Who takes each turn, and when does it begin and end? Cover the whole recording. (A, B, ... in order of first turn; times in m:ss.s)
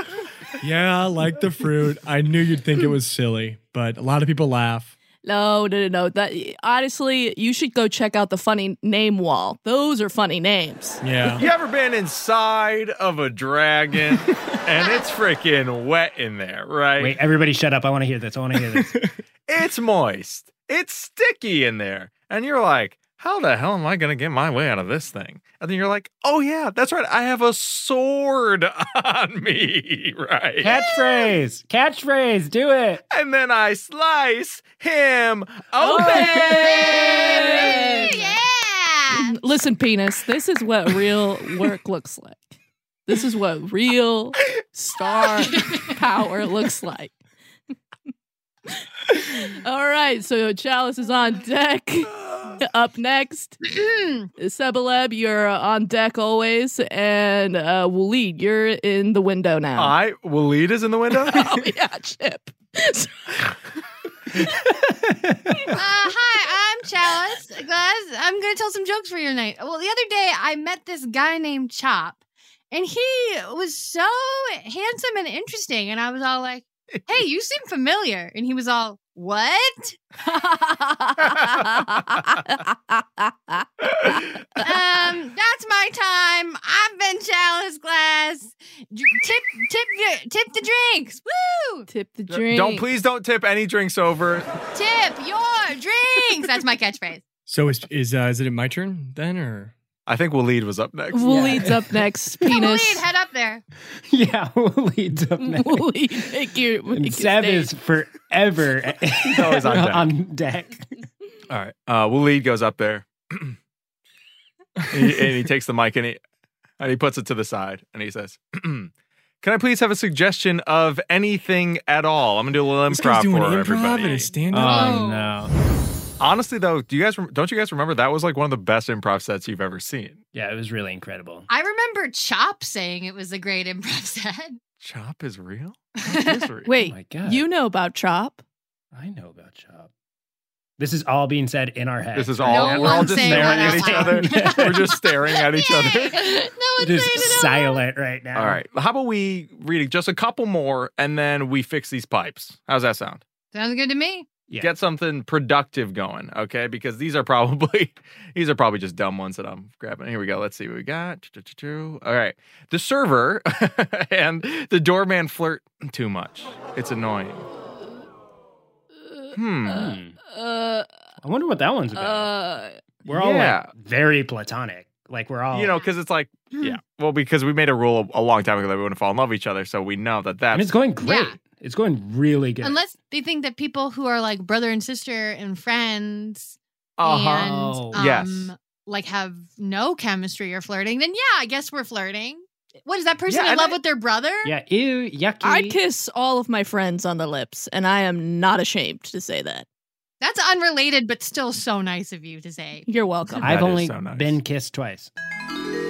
0:00.6-0:04.9 A
0:05.2-0:11.0 B
0:11.0-0:11.4 A
0:11.4-0:17.2 C
0:17.0-0:18.9 D
0:18.7-0:19.1 A
0:19.5-0:30.7 C
0:30.6-0:33.0 D
0:33.1-0:37.7 C
0:35.8-0:38.3 B
0:36.0-0:36.6 D
0:36.4-0:39.4 E
0:39.1-0:42.5 B
0:43.1-0:47.1 B
0:45.5-0:45.9 E
0:49.0-0:53.6 B
0:52.3-0:52.5 C
0:53.6-0:54.3 E
0:54.4-1:00.0 B
0:59.8-1:01.6 C
1:01.2-1:03.5 B
1:04.6-1:05.7 D
1:05.7-1:12.2 E
1:12.7-1:20.0 E
1:20.3-1:23.7 B
1:21.3-1:21.6 C
1:24.0-1:24.6 C
1:24.6-1:31.9 E
1:31.9-1:32.9 B
1:32.3-1:34.5 C
1:34.7-1:37.2 E
1:37.4-1:39.7 A
1:40.1-1:41.7 C
1:41.1-1:43.0 B
1:41.2-1:41.9 D
1:42.4-1:43.6 E
1:44.1-1:46.3 D
1:45.4-1:47.7 B
1:46.9-1:50.8 D
1:49.3-1:50.1 C
1:51.5-1:53.6 C
1:54.8-1:55.3 A
1:54.9-1:56.2 C
1:56.8-1:58.9 C
1:59.4-2:04.3 C
2:02.9-2:05.1 A
2:04.0-2:05.3 E
2:04.5-2:05.5 D
2:06.2-2:10.2 C
2:10.3-2:11.5 D
2:11.5-2:14.6 E
2:14.8-2:16.7 C
2:16.0-2:16.5 E
2:16.6-2:18.4 B
2:16.7-2:17.4 D
2:18.9-2:19.9 D
2:20.8-2:25.0 D
2:22.1-2:26.2 C
2:22.4-2:27.8 E
2:26.8-2:28.6 D
2:28.3-2:33.2 C
2:33.5-2:34.3 E
2:34.6-2:47.4 C
2:49.3-2:49.9 C
2:49.6-2:50.9 B
2:49.7-2:50.2 D
2:51.2-2:52.3 D
2:51.9-2:52.8 B
2:53.0-2:55.7 D
2:53.1-2:53.7 C
2:55.5-3:00.7 C
2:56.5-2:56.8 E
3:00.5-3:02.8 D
3:01.0-3:01.4 E
3:02.6-3:14.5 E
3:07.0-3:08.5 C
3:07.4-3:08.0 D
3:13.3-3:13.8 C
3:14.4-3:15.8 D
3:15.4-3:19.6 B
3:20.2-3:22.8 E
3:22.9-3:23.6 B
3:23.3-3:24.4 C
3:23.4-3:25.1 D